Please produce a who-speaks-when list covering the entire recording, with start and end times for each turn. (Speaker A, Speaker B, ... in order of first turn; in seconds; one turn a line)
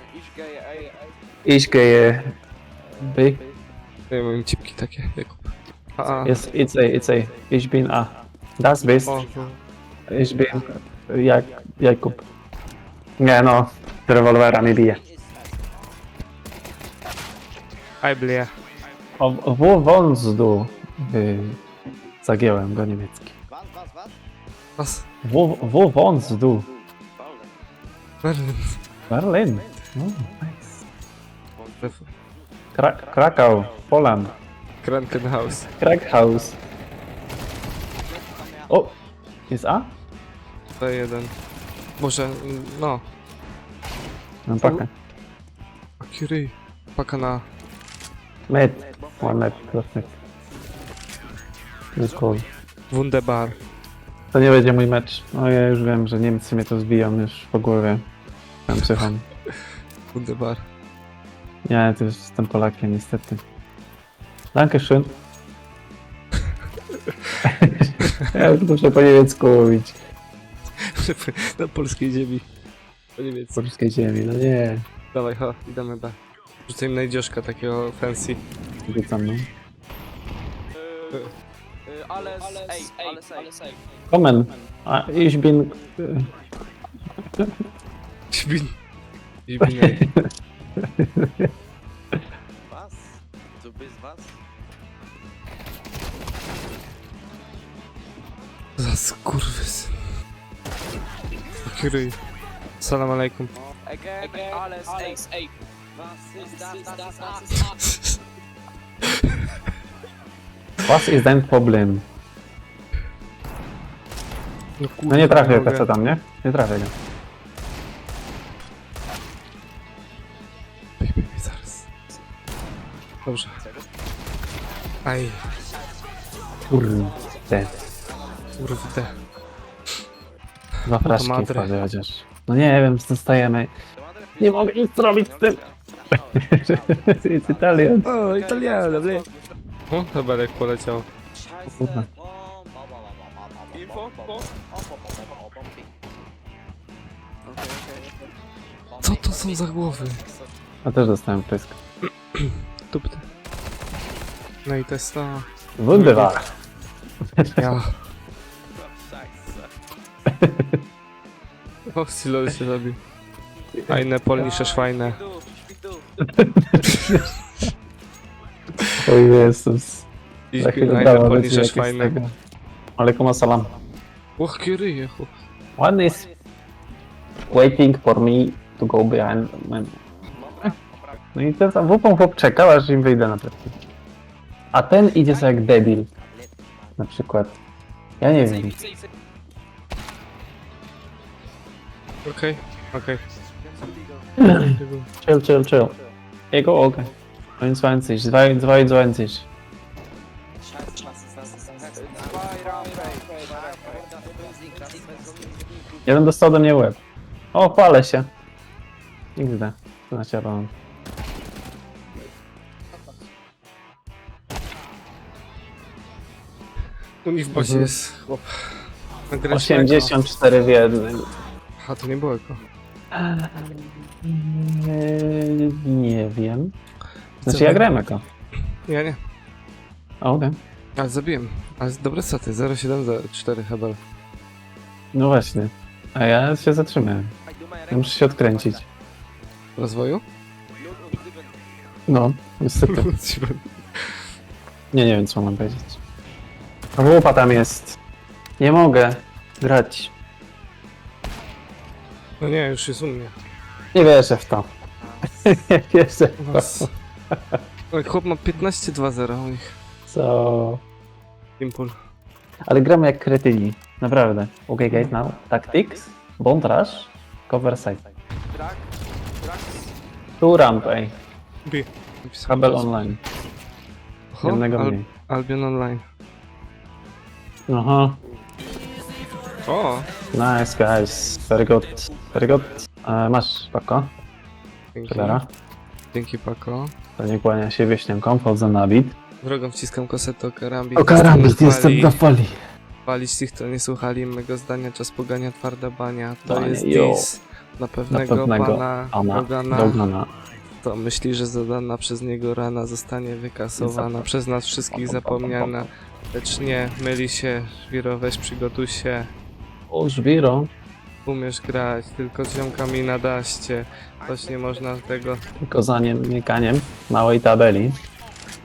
Speaker A: 1.4-2.4
Speaker A: 3.0-3.4
Speaker B: 4.1-6.4
Speaker A: 6.2-9.3
Speaker B: 9.1-9.6
Speaker A: 10.1-12.2
Speaker A: 13.2-15.0
Speaker B: 18.0-18.5
Speaker A: 19.2-21.6
Speaker A: 22.2-23.4
Speaker B: 24.8-25.1
Speaker A: 25.2-26.7
Speaker B: 28.2-28.8
Speaker A: 29.1-30.8
Speaker B: 31.8-32.1
Speaker A: 32.7-34.3
Speaker B: 34.8-35.7
Speaker A: 35.6-36.6
Speaker A: 38.7-39.0
Speaker A: 39.5-40.0
Speaker B: 40.8-41.3
Speaker B: 42.0-43.0
Speaker A: 44.5-44.9
Speaker B: 44.6-44.9
Speaker B: 46.0-47.5
Speaker A: 48.5-50.2
Speaker A: 52.0-52.5
Speaker B: 52.9-53.6
Speaker A: 54.3-58.0
Speaker A: 58.7-59.2
Speaker B: 58.7-59.6
Speaker B: 60.1-60.7
Speaker A: 61.7-63.4
Speaker A: 64.5-65.2
Speaker B: 67.1-67.4
Speaker A: 67.4-70.0
Speaker B: 68.0-68.5
Speaker B: 70.8-72.5
Speaker B: 73.2-73.6
Speaker A: 73.6-74.8
Speaker B: 75.1-78.4
Speaker A: 78.9-79.5
Speaker C: 82.4-83.0
Speaker A: 84.1-86.3
Speaker B: 88.3-88.7
Speaker B: 89.5-90.0
Speaker A: 89.6-90.3
Speaker A: 90.8-91.5
Speaker B: 98.8-100.0
Speaker B: 101.7-102.2
Speaker B: 102.8-103.5
Speaker C: 104.4-105.2
Speaker C: 106.4-107.6
Speaker B: 107.5-108.2
Speaker B: 109.0-109.7
Speaker A: 110.8-112.0
Speaker B: 114.8-115.9
Speaker A: 115.1-116.9
Speaker B: 121.0-121.9
Speaker B: 123.2-123.6
Speaker B: 125.0-125.5
Speaker A: 126.7-127.8
Speaker B: 128.6-129.1
Speaker A: 130.8-133.7
Speaker B: 130.9-131.7
Speaker A: 134.4-135.6
Speaker A: 136.1-138.1
Speaker B: 138.0-139.3
Speaker B: 139.9-141.1
Speaker A: 141.7-142.1
Speaker B: 149.0-150.2
Speaker A: 150.8-151.8
Speaker B: 152.3-153.3
Speaker B: 154.7-156.3
Speaker A: 155.8-156.4
Speaker A: 157.4-157.8
Speaker B: 157.6-158.0
Speaker A: 160.3-160.8
Speaker B: 161.9-163.0
Speaker B: 163.9-165.2
Speaker A: 166.2-167.6
Speaker B: 166.8-167.7
Speaker A: 169.0-170.1
Speaker B: 170.5-172.2
Speaker A: 170.6-172.3
Speaker A: 173.0-173.7
Speaker B: 174.4-175.3
Speaker A: 175.8-176.3
Speaker A: 177.5-180.0
Speaker A: 181.3-183.8
Speaker A: 184.7-186.1
Speaker A: 187.0-187.6
Speaker A: 188.2-188.8
Speaker B: 192.2-193.2
Speaker A: 194.4-196.0
Speaker B: 194.4-195.1
Speaker A: 196.5-199.5
Speaker C: 202.0-204.1
Speaker A: 206.1-207.0
Speaker A: 207.5-208.3
Speaker A: 209.4-210.7
Speaker B: 217.2-220.2
Speaker A: 217.5-217.9
Speaker A: 219.5-221.3
Speaker B: 221.8-222.6
Speaker A: 223.1-226.7
Speaker A: 227.4-228.2
Speaker B: 227.4-227.9
Speaker B: 228.7-229.2
Speaker A: 230.2-230.6
Speaker B: 231.0-234.0
Speaker A: 235.1-237.3
Speaker A: 237.9-238.9
Speaker B: 239.8-240.2
Speaker A: 242.1-243.0
Speaker B: 242.8-244.2
Speaker A: 244.9-246.0
Speaker A: 247.0-248.0
Speaker A: 248.6-250.1
Speaker B: 252.4-253.3
Speaker A: 253.9-254.7
Speaker B: 255.1-255.5
Speaker A: 255.4-257.6
Speaker B: 256.4-256.9
Speaker B: 257.9-259.8
Speaker A: 260.1-260.8
Speaker B: 261.6-262.0
Speaker A: 262.7-268.0
Speaker B: 264.9-265.1
Speaker A: 270.4-271.1
Speaker B: 271.6-273.1
Speaker A: 272.5-273.2
Speaker B: 274.3-276.0
Speaker A: 274.4-275.1
Speaker A: 277.7-278.2
Speaker B: 279.7-280.1
Speaker A: 280.3-284.1
Speaker B: 284.9-285.4
Speaker A: 285.1-285.5
Speaker B: 286.1-286.9
Speaker A: 287.2-289.2
Speaker B: 289.4-292.2
Speaker A: 291.0-292.6
Speaker B: 293.1-300.0
Speaker A: 296.5-297.3
Speaker A: 298.1-300.3
Speaker B: 300.8-309.3
Speaker A: 303.8-304.2
Speaker A: 304.9-305.8
Speaker A: 309.9-310.7
Speaker B: 311.2-315.4
Speaker A: 315.6-318.0